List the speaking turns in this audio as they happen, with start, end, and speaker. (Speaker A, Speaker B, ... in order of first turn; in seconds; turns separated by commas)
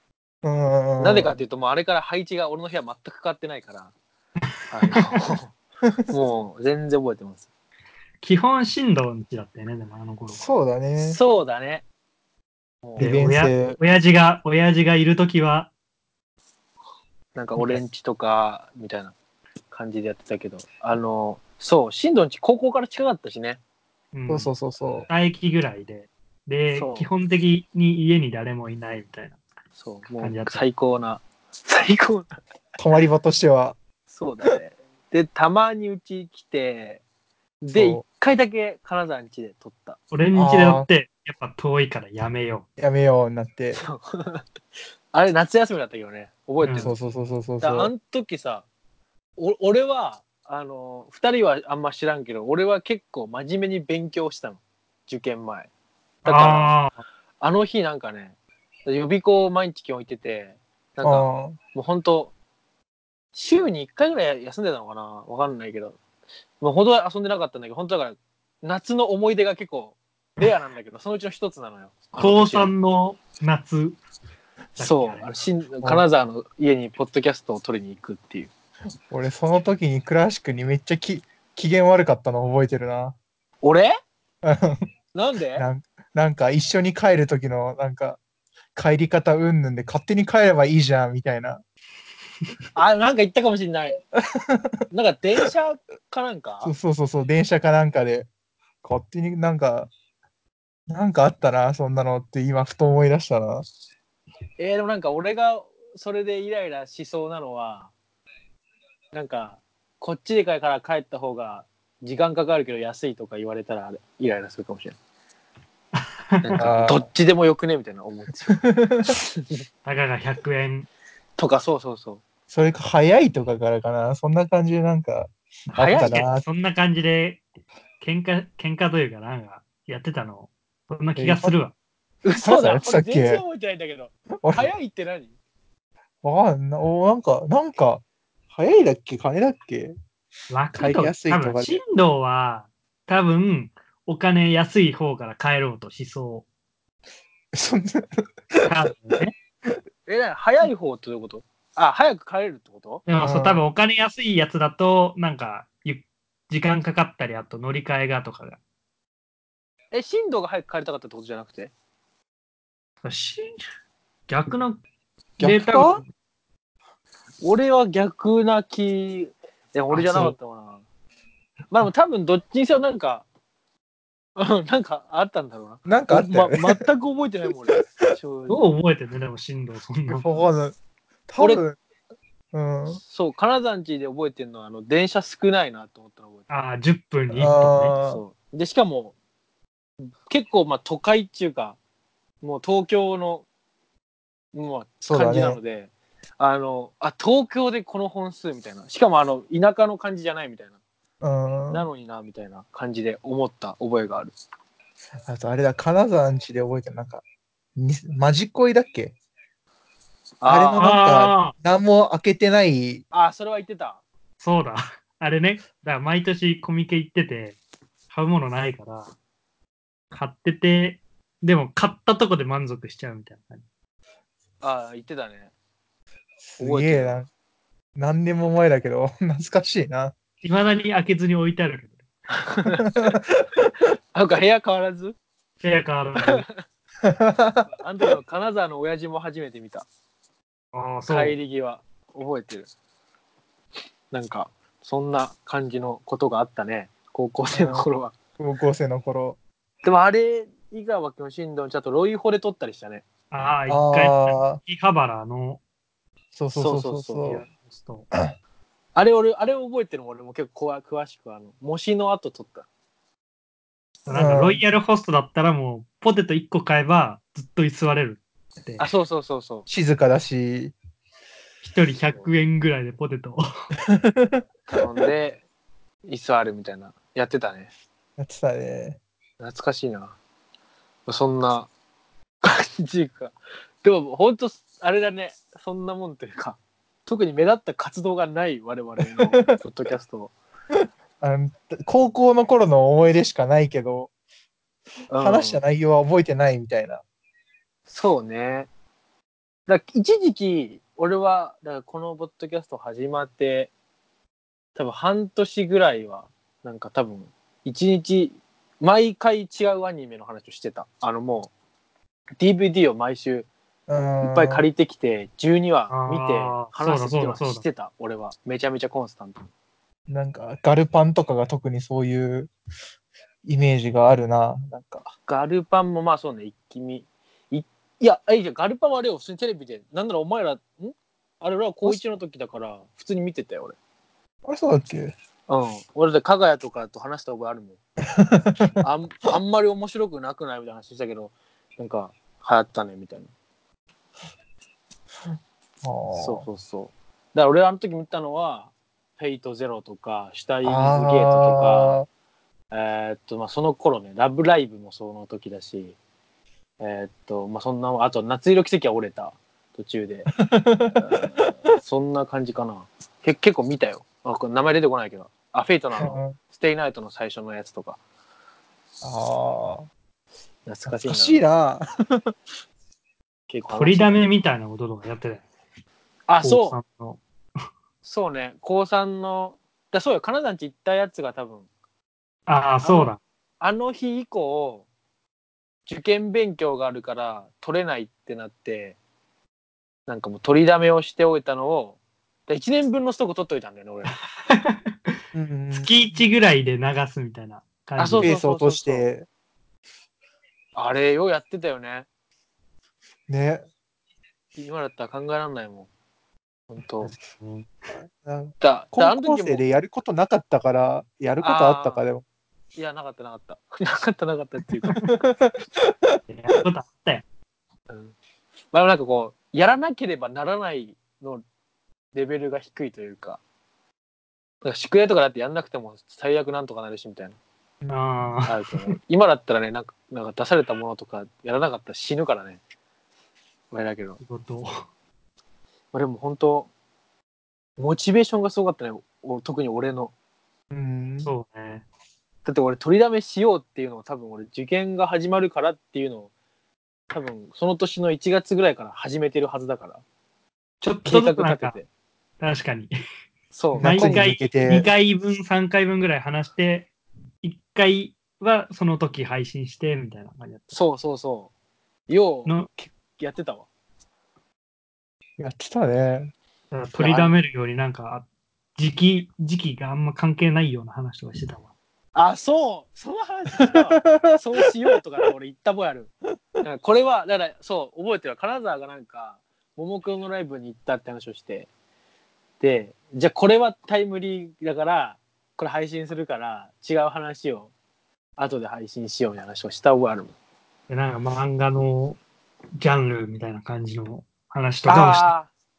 Speaker A: 0.4-1.3, Speaker B: 1.0-3.9, Speaker B: 4.7-5.5, Speaker B: 6.1-7.5, Speaker C: 8.2-10.4, Speaker A: 10.3-11.2, Speaker B: 11.0-11.8, Speaker B: 12.8-13.2, Speaker A: 13.0-13.8, Speaker C: 13.0-15.7, Speaker B: 17.3-19.1, Speaker C: 17.6-17.8, Speaker B: 19.7-23.6, Speaker C: 24.1-24.5, Speaker A: 24.3-25.1, Speaker C: 25.1-29.4, Speaker B: 26.7-27.1, Speaker B: 29.8-32.3, Speaker C: 30.2-30.6, Speaker A: 32.8-33.8, Speaker B: 34.1-37.0, Speaker B: 37.6-40.0, Speaker A: 37.7-38.0, Speaker C: 40.1-42.6, Speaker A: 40.3-40.9, Speaker A: 42.8-43.8, Speaker B: 43.7-44.4, Speaker B: 45.1-46.9, Speaker C: 46.6-46.9, Speaker A: 46.8-47.9, Speaker B: 47.6-48.6, Speaker B: 49.4-55.7, Speaker B: 56.2-56.8, Speaker C: 56.2-56.9, Speaker B: 57.4-62.3, Speaker A: 61.0-61.5, Speaker B: 63.3-66.0, Speaker B: 66.6-72.7, Speaker C: 72.2-74.0, Speaker C: 74.8-75.3, Speaker B: 74.8-78.5, Speaker A: 79.1-83.2, Speaker B: 83.6-83.9, Speaker A: 84.4-84.8, Speaker B: 85.1-85.6, Speaker A: 85.6-88.2, Speaker A: 88.7-91.6, Speaker B: 92.7-94.0, Speaker A: 94.3-94.8, Speaker B: 94.9-96.7, Speaker A: 96.6-98.3, Speaker A: 98.8-99.9, Speaker A: 100.9-103.6, Speaker B: 104.6-107.9, Speaker B: 109.1-115.0, Speaker B: 116.4-118.6, Speaker A: 116.6-117.0, Speaker A: 118.6-119.1, Speaker B: 119.1-119.5, Speaker C: 119.8-120.9, Speaker B: 121.4-122.2, Speaker A: 122.5-126.4, Speaker C: 125.7-127.4, Speaker B: 125.8-126.2, Speaker C: 128.0-131.7, Speaker A: 131.2-131.5, Speaker B: 132.2-135.3, Speaker A: 132.3-133.4, Speaker A: 134.4-134.7, Speaker A: 136.2-138.0, Speaker A: 138.5-139.9, Speaker C: 140.5-146.4, Speaker A: 140.7-141.8, Speaker A: 147.5-148.7, Speaker C: 148.7-149.3, Speaker B: 150.1-153.0, Speaker C: 153.1-158.6, Speaker A: 153.2-153.6, Speaker B: 159.9-161.7, Speaker C: 163.0-163.6, Speaker C: 164.3-164.8, Speaker C: 165.4-166.1, Speaker A: 165.4-166.0, Speaker B: 167.4-170.8, Speaker C: 169.9-170.3, Speaker B: 171.7-173.2, Speaker B: 174.3-178.6, Speaker A: 175.8-176.8, Speaker C: 178.5-180.3, Speaker A: 180.1-180.7, Speaker A: 181.3-181.8, Speaker B: 181.4-181.6, Speaker A: 182.5-183.0, Speaker B: 183.0-186.5, Speaker C: 186.5-187.9, Speaker A: 187.3-188.2, Speaker B: 188.0-189.1, Speaker B: 190.0-191.8, Speaker B: 192.4-193.4, Speaker B: 194.5-200.8, Speaker A: 195.1-195.6, Speaker A: 201.2-201.8, Speaker B: 201.7-204.3, Speaker A: 205.3-207.2, Speaker A: 207.8-209.1, Speaker B: 210.4-210.8, Speaker A: 210.4-213.0, Speaker C: 210.8-211.5, Speaker B: 213.1-214.0, Speaker C: 214.4-217.6, Speaker C: 218.1-219.1, Speaker C: 220.1-223.6, Speaker B: 224.6-225.5, Speaker A: 226.4-227.3, Speaker B: 226.6-227.2, Speaker A: 227.9-230.1, Speaker C: 230.4-232.0, Speaker B: 232.3-233.2, Speaker B: 234.1-235.2, Speaker C: 235.6-236.4, Speaker B: 236.2-236.6, Speaker A: 237.0-237.6, Speaker B: 237.7-239.8, Speaker C: 240.7-241.4, Speaker B: 241.1-242.7, Speaker B: 244.1-248.1, Speaker A: 247.5-247.8, Speaker A: 248.4-249.4, Speaker B: 249.8-253.0, Speaker C: 253.3-255.6, Speaker A: 253.7-254.6, Speaker A: 256.3-257.4, Speaker B: 256.5-257.4, Speaker C: 257.4-258.1, Speaker B: 258.9-262.6, Speaker C: 264.1-268.8, Speaker A: 264.1-264.6, Speaker B: 268.8-269.7, Speaker A: 269.7-270.7, Speaker C: 271.6-273.4, Speaker A: 273.9-274.8, Speaker B: 274.7-275.4, Speaker B: 276.0-277.7, Speaker A: 278.2-279.0, Speaker B: 279.4-280.1, Speaker B: 281.1-281.7, Speaker B: 282.4-290.3, Speaker A: 291.2-294.1, Speaker B: 295.1-295.6, Speaker A: 295.1-297.0, Speaker B: 297.9-298.7, Speaker B: 299.7-303.7, Speaker B: 304.8-311.5, Speaker B: 312.4-313.5, Speaker A: 313.9-314.6, Speaker B: 314.2-319.5, Speaker C: 315.9-317.6, Speaker A: 320.1-322.5, Speaker A: 323.4-325.1, Speaker B: 325.2-333.8, Speaker A: 334.4-335.1, Speaker B: 335.5-337.8, Speaker A: 338.2-338.7, Speaker B: 338.8-343.3, Speaker A: 345.8-346.4, Speaker B: 346.1-352.0, Speaker A: 350.6-352.1, Speaker B: 352.7-356.0, Speaker B: 356.8-360.3, Speaker A: 360.4-361.4, Speaker B: 360.9-368.0, Speaker A: 366.0-366.4, Speaker A: 369.0-369.9, Speaker B: 370.6-371.4, Speaker A: 370.9-372.3, Speaker B: 373.5-374.2, Speaker C: 373.7-375.4, Speaker B: 376.3-376.8, Speaker C: 376.4-377.2, Speaker B: 378.0-381.7, Speaker C: 382.5-383.2, Speaker B: 382.8-384.9, Speaker B: 385.9-389.0, Speaker B: 390.1-394.1, Speaker A: 395.3-395.9, Speaker C: 395.7-398.3, Speaker B: 398.0-399.1, Speaker A: 398.1-399.2, Speaker B: 400.7-402.1, Speaker A: 403.3-403.6, Speaker B: 404.5-405.9, Speaker B: 406.7-407.1, Speaker C: 407.0-407.7, Speaker A: 408.0-412.2, Speaker B: 408.6-409.6, Speaker B: 411.4-412.0, Speaker B: 412.7-415.0, Speaker A: 414.9-416.2, Speaker C: 416.3-417.2, Speaker B: 417.9-418.1, Speaker B: 418.7-421.4, Speaker B: 422.1-423.4, Speaker B: 424.6-427.4, Speaker C: 427.9-428.9, Speaker B: 428.5-432.6, Speaker B: 433.7-434.2, Speaker C: 434.2-434.8, Speaker B: 435.9-436.7, Speaker B: 437.8-440.1, Speaker A: 440.7-441.3, Speaker C: 441.2-441.8, Speaker B: 442.4-446.3, Speaker B: 447.1-450.0, Speaker C: 450.8-451.8, Speaker B: 451.1-451.9, Speaker C: 452.4-452.9, Speaker B: 453.5-454.2, Speaker A: 453.8-454.9, Speaker C: 453.8-456.9, Speaker C: 457.4-460.8, Speaker B: 460.7-461.5, Speaker B: 462.1-463.7, Speaker C: 462.4-462.7, Speaker A: 465.4-466.3, Speaker C: 466.7-471.7, Speaker B: 467.0-467.4, Speaker B: 472.1-476.1, Speaker A: 474.1-474.4, Speaker B: 476.6-481.7, Speaker B: 482.6-487.7, Speaker B: 488.4-490.3, Speaker C: 490.9-492.2, Speaker C: 492.8-495.3, Speaker B: 494.9-495.5